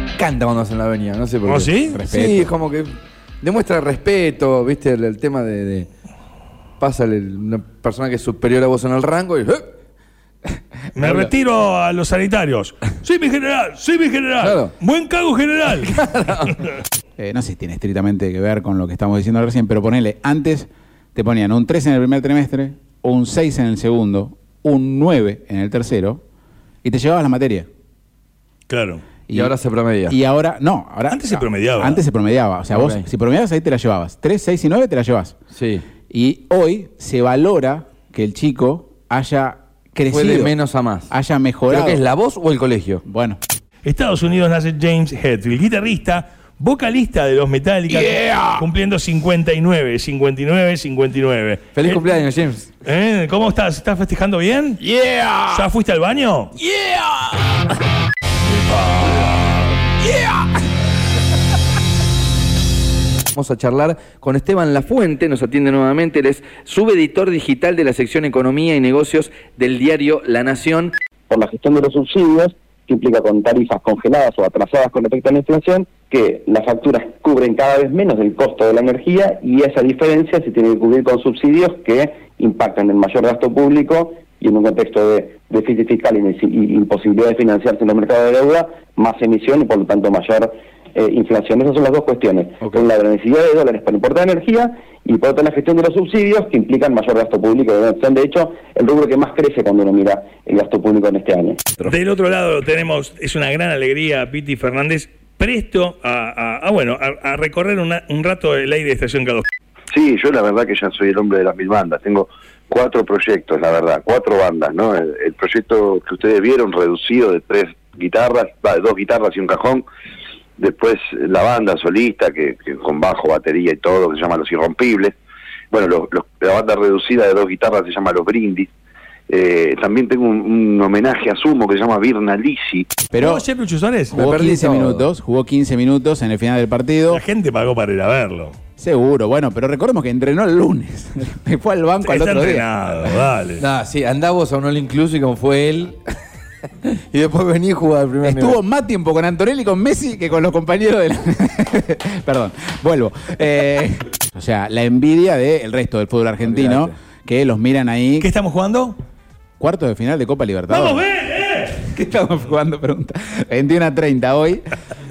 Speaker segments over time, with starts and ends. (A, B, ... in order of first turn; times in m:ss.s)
0:00.2-0:02.9 A
0:01.5-0:02.0 B
0:01.9-0:02.5 C
0:03.4-0:05.9 A
0:06.8-0:09.7 A
0:11.0-0:16.0 B
0:11.0-0:11.3 A
0:14.4-0:14.7 A
0:15.8-0:16.5 A
0:17.2-0:26.2 C
0:26.8-0:27.7 C
0:28.7-0:29.0 B
0:29.3-0:29.6 C
0:29.3-0:30.2 A
0:30.1-0:35.4 C
0:31.1-0:32.0 B
0:32.7-0:33.0 A
0:35.5-0:35.8 A
0:36.1-0:40.6 C
0:40.1-0:41.1 A
0:41.1-0:42.0 C
0:41.7-0:43.0 A
0:43.0-0:43.4 C
0:43.8-0:52.0 B
0:51.7-0:52.7 A
0:52.8-0:54.8 B
0:55.5-0:56.5 B
0:56.6-0:57.3 A
1:03.3-1:10.9 A
1:11.3-1:41.6 D
1:41.8-1:49.5 B
1:49.9-1:59.8 E
2:00.6-2:05.1 E
2:05.7-2:08.7 E
2:09.3-2:12.9 E
2:13.1-2:13.5 C
2:13.1-2:14.2 B
2:14.1-2:17.2 C
2:14.1-2:15.1 A
2:17.1-2:18.6 B
2:18.8-2:22.7 C
2:22.0-2:23.6 B
2:23.6-2:26.0 A
2:26.8-2:28.6 A
2:28.2-2:38.3 C
2:36.4-2:36.9 A
2:38.2-2:39.0 B
2:39.6-2:41.0 C
2:40.7-2:41.8 B
2:41.8-2:44.7 C